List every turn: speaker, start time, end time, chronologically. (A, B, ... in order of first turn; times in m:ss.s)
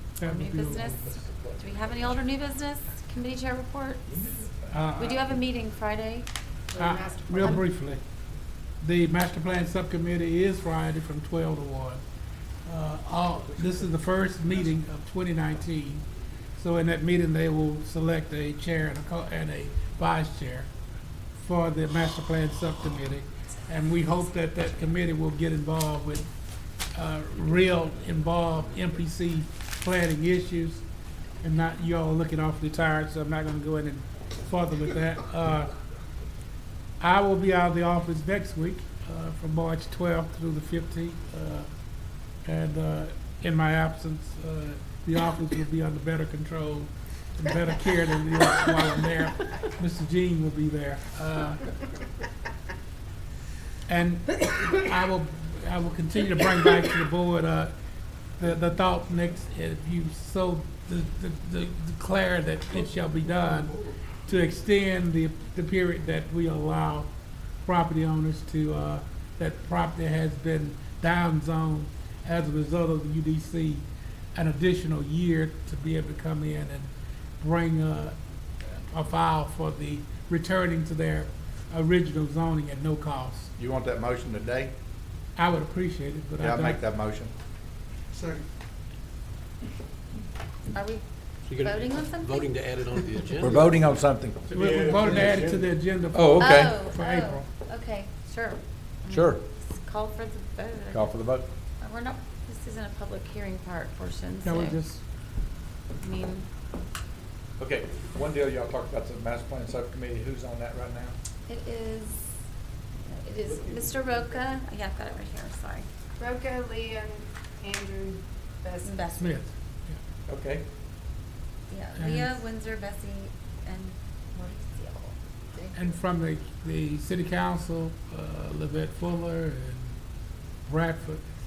0:00.2-0:01.0 A
0:00.2-0:04.0 B
0:01.0-0:02.2 C
0:04.1-0:04.9 C
0:04.7-0:05.2 A
0:05.0-0:06.3 B
0:06.7-0:07.6 D
0:06.8-0:08.0 A
0:08.8-0:12.0 A
0:12.6-0:16.0 A
0:13.3-0:13.9 C
0:16.6-0:20.7 A
0:21.4-0:26.3 A
0:26.9-0:30.8 A
0:31.4-0:35.7 A
0:37.0-0:41.7 A
0:42.4-0:51.7 A
0:53.9-0:57.7 A
0:58.4-1:07.1 A
1:07.6-1:23.5 A
1:23.6-1:24.7 C
1:25.4-1:26.8 A
1:26.4-1:27.3 C
1:30.7-1:32.6 B
1:31.5-1:33.6 E
1:33.4-1:35.2 C
1:34.5-1:37.4 A
1:34.9-1:35.3 E
1:36.1-1:36.8 C
1:36.4-1:41.1 B
1:39.1-1:39.4 C
1:40.9-1:41.5 C
1:41.8-1:44.8 B
1:44.4-1:45.0 A
1:46.0-1:46.4 B
1:47.6-1:51.2 C
1:51.5-1:52.3 B
1:53.0-1:55.8 B
1:56.2-1:59.1 D
1:58.8-1:59.4 B
1:59.2-2:00.0 A
2:00.3-2:00.6 C
2:01.7-2:05.1 B
2:02.0-2:02.4 A
2:05.7-2:10.0 A
2:10.6-2:11.2 A